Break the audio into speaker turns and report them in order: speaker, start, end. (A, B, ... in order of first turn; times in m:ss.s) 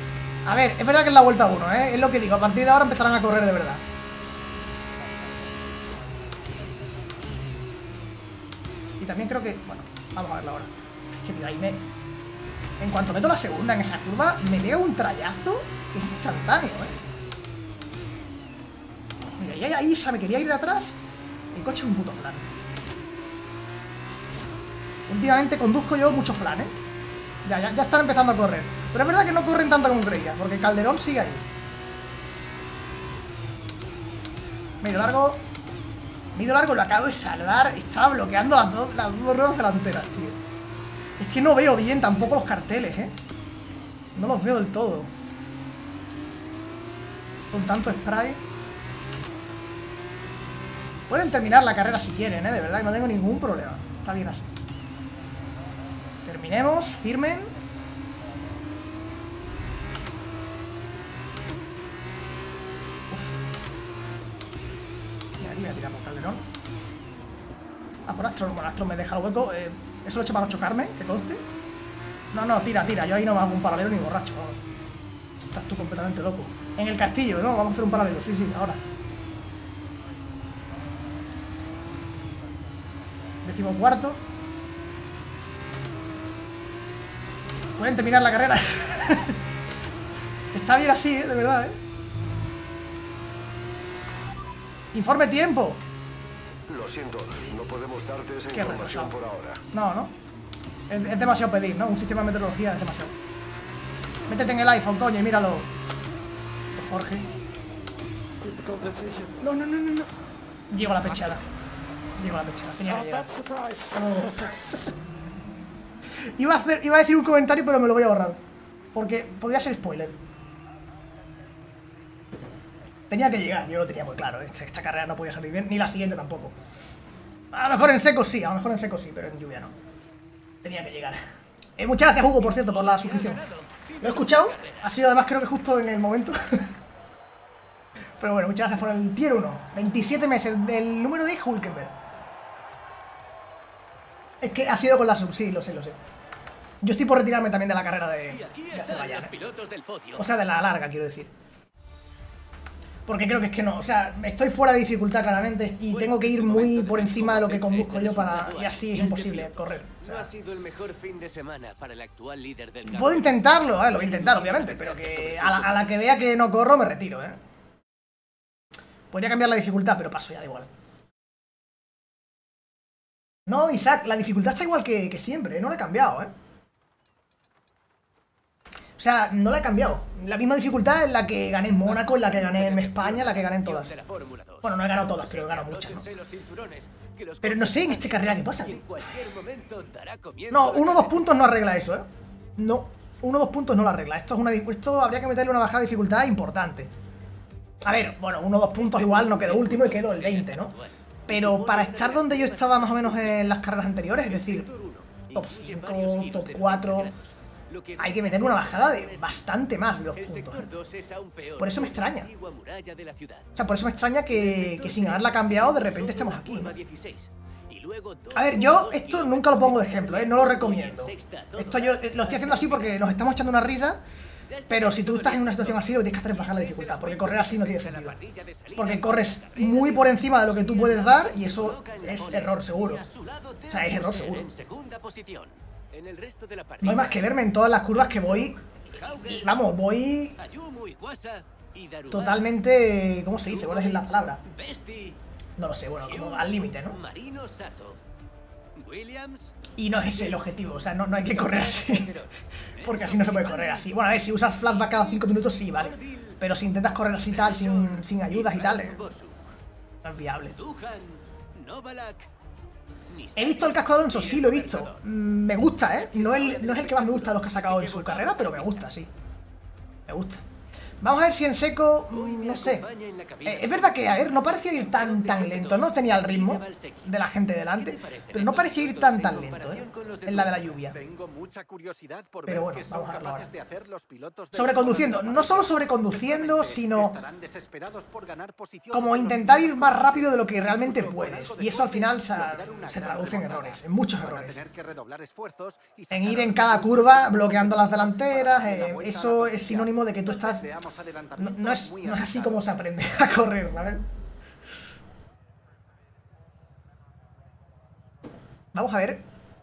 0:00.5-0:03.8 A
0:09.0-0:11.8 A
0:12.8-0:17.0 A
0:19.4-0:21.0 A
0:21.5-0:22.5 A
0:25.1-0:26.7 A
0:27.4-0:31.4 A
0:34.8-0:35.4 A
0:36.4-0:40.4 A
0:41.2-0:43.2 A
0:44.2-0:45.1 A
0:47.5-0:48.4 A
0:51.1-0:54.5 A
0:56.2-0:57.5 A
1:03.1-1:03.4 A
1:05.4-1:06.5 A
1:08.1-1:11.4 A
1:12.3-1:14.6 A
1:15.5-1:18.8 A
1:23.4-1:24.2 A
1:27.8-1:29.4 A
1:30.5-1:31.8 A
1:34.9-1:35.8 A
1:36.7-1:39.6 B
1:38.5-1:39.1 A
1:39.7-1:40.1 A
1:40.9-1:43.1 A
1:44.3-1:45.7 A
1:46.7-1:47.3 A
1:49.2-1:50.1 A
1:50.7-1:51.4 A
1:52.2-1:54.8 A
1:56.2-1:58.4 A
1:58.9-2:00.2 A
2:03.1-2:06.6 A
2:07.5-2:09.8 A
2:10.6-2:11.2 A
2:11.8-2:13.4 A
2:12.4-2:15.0 C
2:14.0-2:16.7 A
2:18.2-2:21.9 A
2:24.4-2:26.0 A
2:26.8-2:29.4 A
2:28.3-2:30.3 C
2:30.2-2:31.3 A
2:33.1-2:40.3 A
2:35.9-2:45.9 C
2:42.8-2:47.4 A
2:49.1-2:50.7 A
2:53.5-2:56.3 A
2:59.0-3:03.9 A
3:01.9-3:11.3 C
3:04.6-3:06.1 A
3:07.4-3:08.9 A
3:10.5-3:16.9 A
3:17.8-3:20.7 A
3:18.7-3:23.6 C
3:21.3-3:24.7 A
3:24.1-3:29.4 C
3:25.3-3:27.1 A
3:28.0-3:30.7 A
3:30.2-3:33.5 C
3:31.6-3:32.3 A
3:33.6-3:36.8 A
3:34.3-3:43.0 C
3:38.3-3:44.0 A
3:44.5-3:57.4 C
3:44.7-3:48.2 A
3:48.8-3:53.0 A
3:53.7-3:54.6 A
3:56.8-3:58.6 A
3:58.0-3:59.7 C
3:59.1-4:00.4 A
4:00.4-4:02.5 C
4:02.1-4:04.4 A
4:03.4-4:05.2 C
4:05.6-4:07.0 A
4:06.0-4:08.0 C
4:08.8-4:10.4 C
4:09.8-4:12.2 A
4:11.2-4:16.4 C
4:12.8-4:19.2 A
4:17.3-4:19.4 C
4:20.0-4:20.6 A
4:20.5-4:22.3 C
4:23.1-4:25.0 C
4:23.4-4:29.1 A
4:25.9-4:28.9 C
4:30.1-4:30.4 A
4:31.0-4:32.9 A
4:32.1-4:37.1 C
4:33.4-4:41.0 A
4:37.8-5:02.7 C
4:42.5-4:43.5 A
4:44.5-4:47.2 A
4:48.9-4:54.6 A
4:56.1-5:00.6 A
5:01.4-5:04.1 A
5:08.7-5:09.2 A